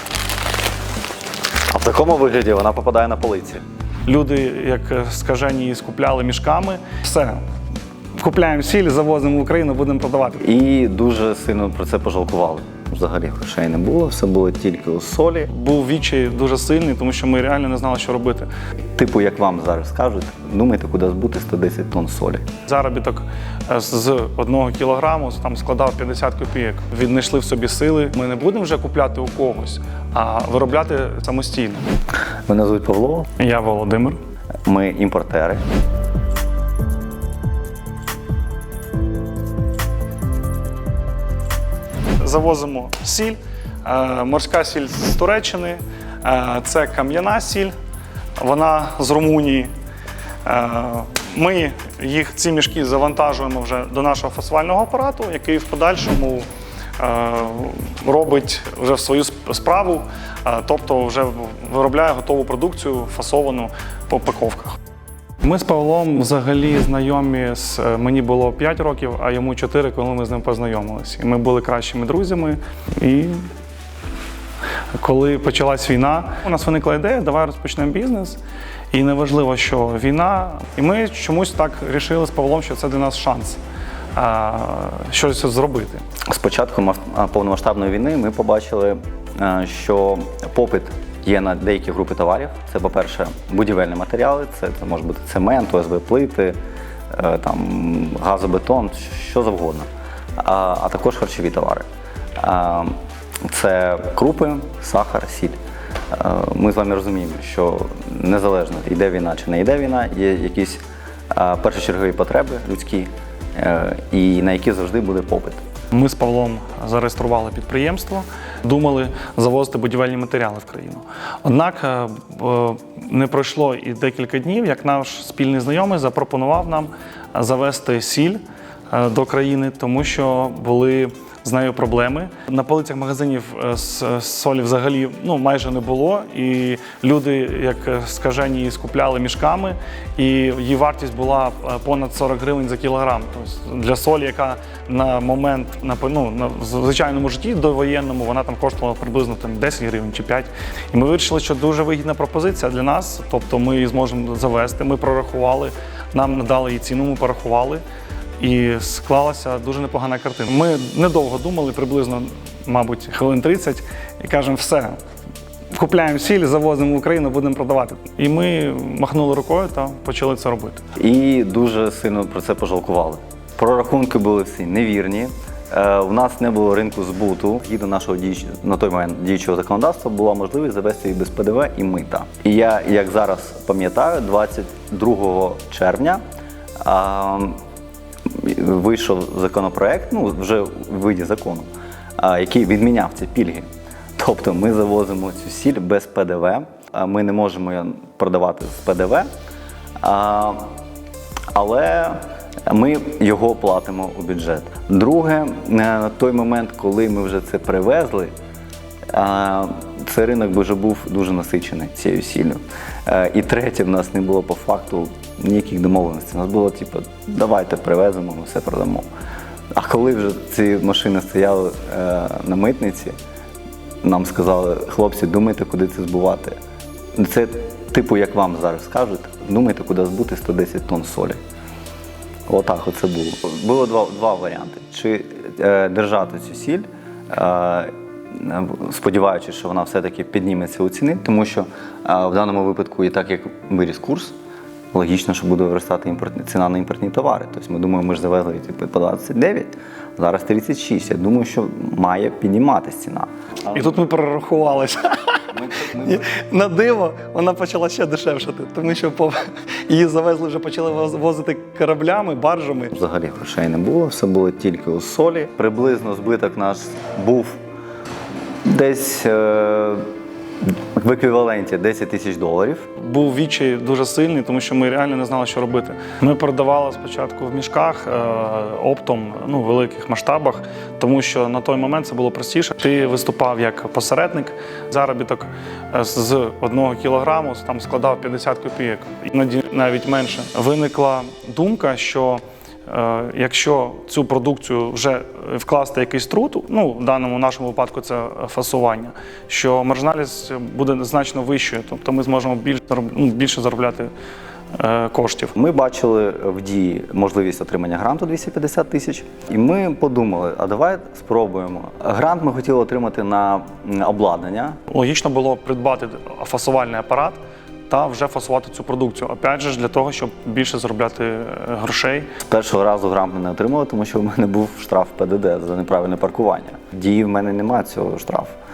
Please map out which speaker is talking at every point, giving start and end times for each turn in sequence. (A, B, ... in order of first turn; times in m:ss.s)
0:01.7-0:03.6 A
0:04.0-0:07.4 B
0:08.2-0:10.4 B
0:10.4-0:15.5 A
0:15.5-0:18.5 B
0:18.9-0:22.4 A
0:22.7-0:31.8 B
0:32.4-0:33.3 A
0:33.4-0:34.2 B
0:34.6-0:35.6 A
0:42.2-0:47.7 B
0:48.4-0:49.7 B
0:50.4-0:56.4 B
0:57.0-1:04.8 B
1:05.4-1:13.5 B
1:15.0-1:18.4 B
1:18.9-1:23.6 B
1:24.1-1:26.0 B
1:26.3-1:36.6 A
1:37.1-1:41.8 A
1:42.4-1:45.6 A
1:46.1-1:55.6 A
1:55.9-2:37.8 B
2:38.4-2:45.0 B
2:45.7-2:50.8 B
2:51.0-3:06.2 A
3:06.8-3:07.6 A
3:08.3-3:19.3 A
3:20.0-3:20.7 A
3:21.5-3:28.3 A
3:29.1-3:39.0 A
3:39.7-3:43.1 A
3:44.0-3:46.6 A
3:47.2-3:51.4 A
3:52.5-4:04.4 A
4:04.9-4:13.7 A
4:13.7-4:22.9 B
4:15.5-4:16.3 A
4:22.9-4:27.6 A
4:28.6-4:30.0 A
4:31.0-4:32.9 A
4:33.0-5:04.1 B
5:04.7-5:05.5 B
5:05.6-5:14.8 A
5:14.9-5:22.3 B
5:22.4-5:28.5 A